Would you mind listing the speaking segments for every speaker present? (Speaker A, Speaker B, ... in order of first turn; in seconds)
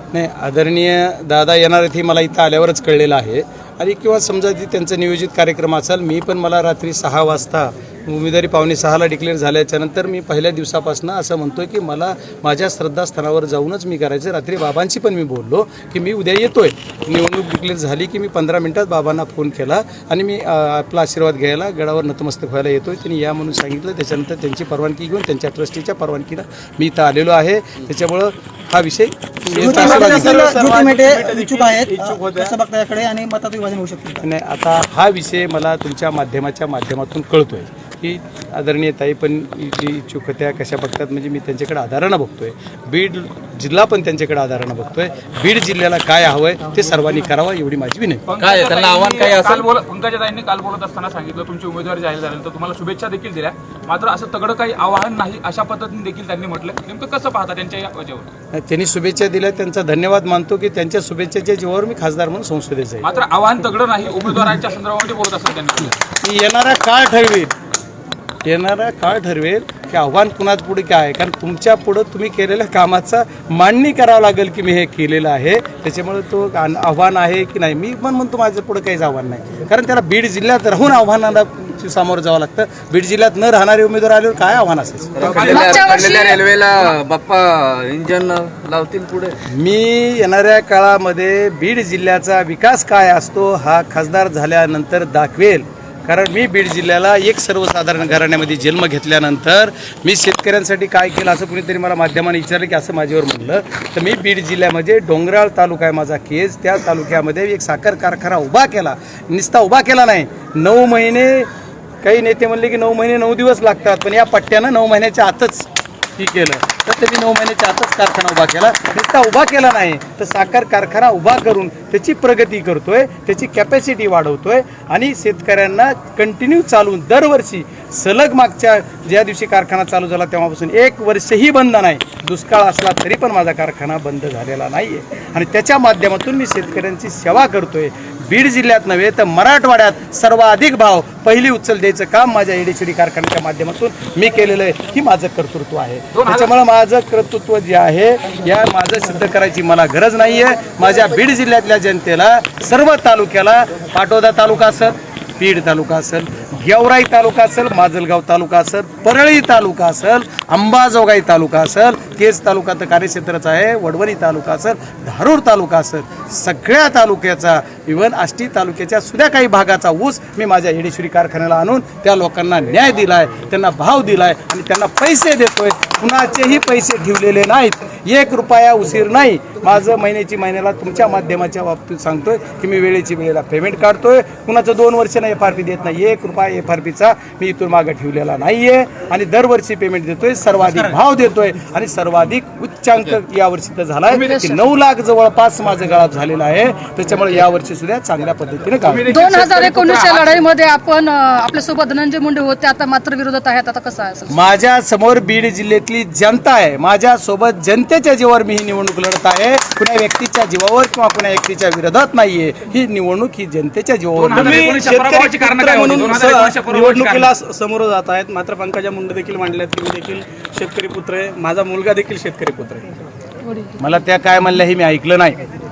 Speaker A: 0.1-30.5, 34.2-48.2, 58.5-63.1, 66.2-67.5, 68.4-85.6, 89.5-111.5, 112.0-199.1, 204.3-214.7, 223.8-225.4
Speaker B: 29.6-32.5, 214.4-222.9
Speaker C: 29.7-34.1
Speaker D: 48.3-58.3, 63.0-66.0, 85.2-85.8, 146.2-146.5, 194.1-194.6, 198.8-200.4, 214.2-217.3
Speaker E: 48.4-49.6, 85.2-89.4
Speaker F: 85.4-86.4, 199.1-204.4